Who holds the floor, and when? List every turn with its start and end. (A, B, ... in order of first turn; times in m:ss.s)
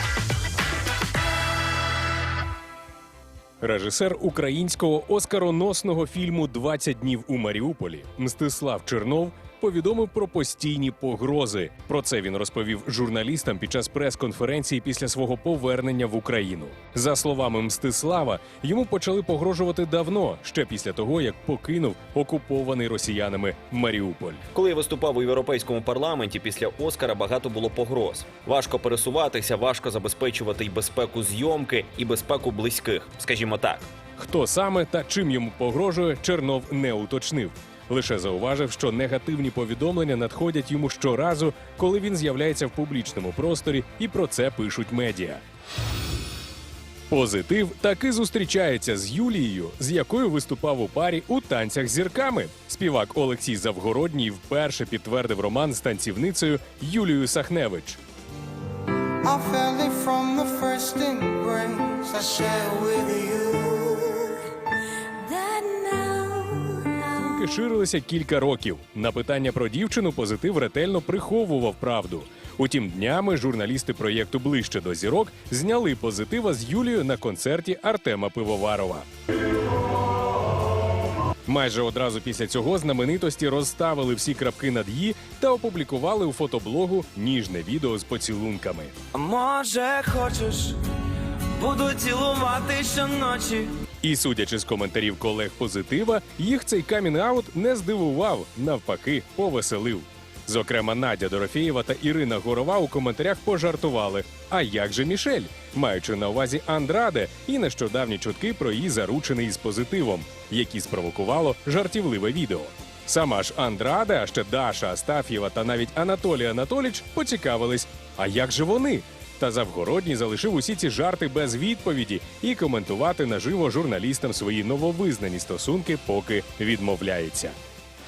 0:03.6-0:24.4 A
0:24.5-0:33.9 B
0:34.2-0:45.4 A
0:47.1-0:58.0 A
0:59.2-1:04.4 C
1:07.2-1:19.0 A
1:21.5-1:28.9 A
1:29.1-1:30.8 D
1:31.6-1:33.7 D
1:34.0-2:07.5 A